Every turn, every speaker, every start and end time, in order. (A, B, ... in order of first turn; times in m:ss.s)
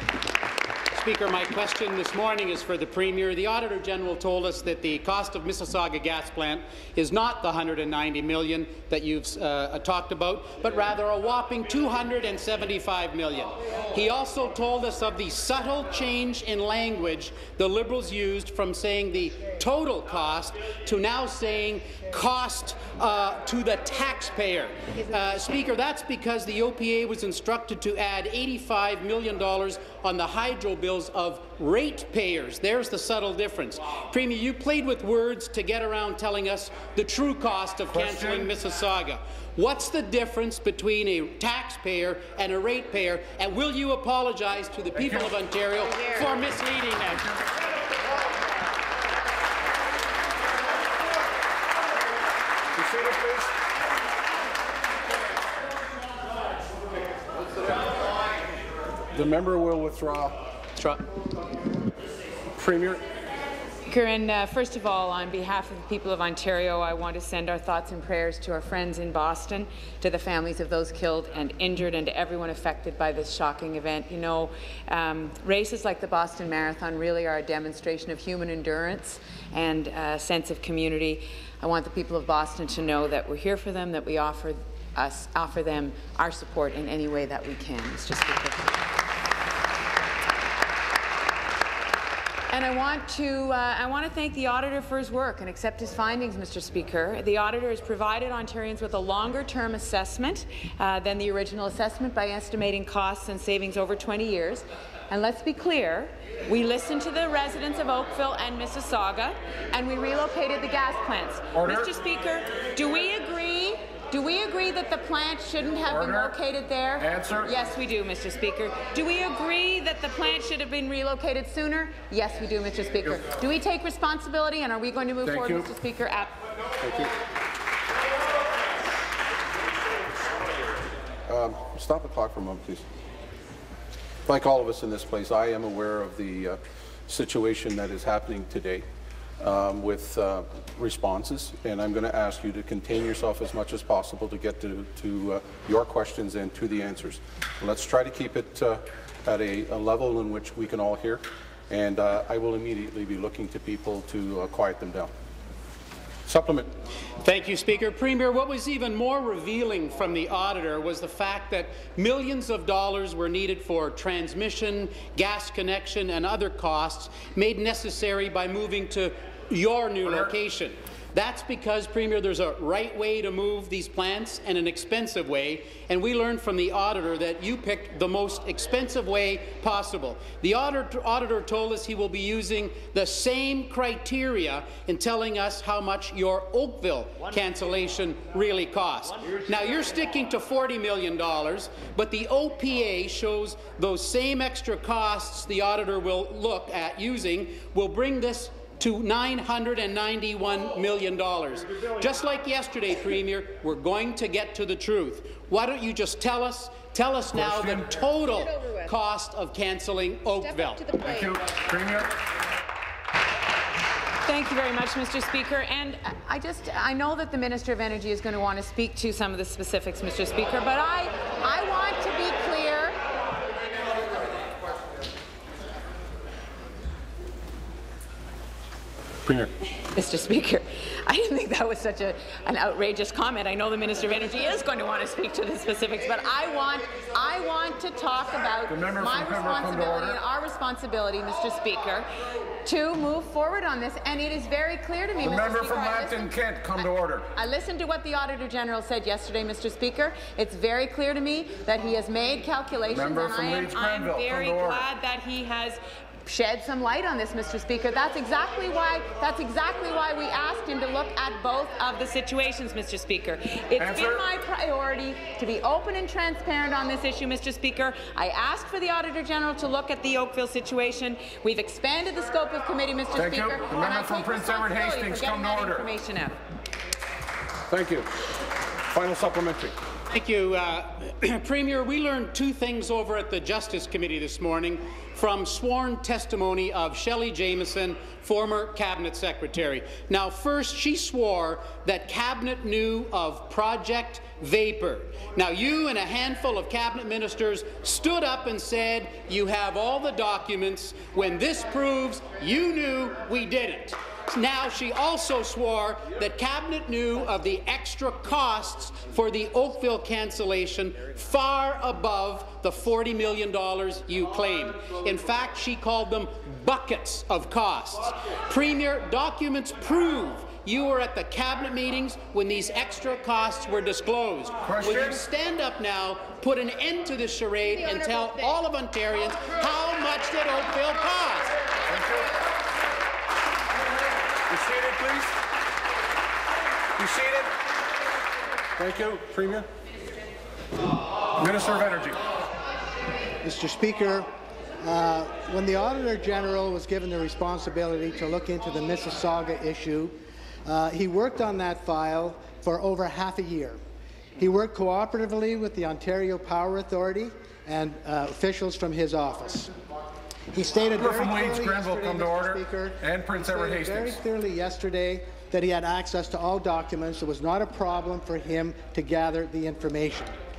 0:00.9-0:47.4 A
0:37.9-0:38.5 B
0:45.0-0:45.3 B
0:52.8-0:53.5 B
0:59.1-1:00.4 B
1:00.8-1:01.0 A
1:02.6-1:03.0 B
1:03.9-1:28.8 C
1:32.5-2:06.4 C
1:51.5-1:51.9 B
1:55.9-1:56.3 B
1:57.0-1:57.5 B
2:05.2-2:05.7 B
2:06.8-2:07.1 B
2:11.3-2:12.8 B
2:14.3-2:18.8 B
2:19.4-2:35.1 B
2:36.3-2:36.7 B
2:37.2-3:30.9 A
3:27.3-3:27.9 B
3:30.7-3:31.3 C
3:31.0-3:32.1 B
3:34.2-3:43.0 C
3:49.8-4:02.1 C
3:58.7-4:00.2 B
4:02.6-4:06.4 C
4:05.2-4:07.3 B
4:07.3-4:36.4 C
4:12.9-4:14.8 B
4:23.8-4:24.2 B
4:33.2-4:35.9 B
4:37.7-4:38.1 B
4:38.9-4:39.8 B
4:40.1-5:31.5 A
5:24.6-5:25.2 B
5:31.9-5:32.3 B
5:34.5-5:35.3 B
5:37.0-5:37.5 B
5:38.8-5:39.7 B
5:41.4-5:42.2 B
5:43.4-5:44.3 D
5:44.8-5:53.8 D
5:54.4-5:59.7 D
6:00.5-6:10.3 D
6:01.0-6:04.2 B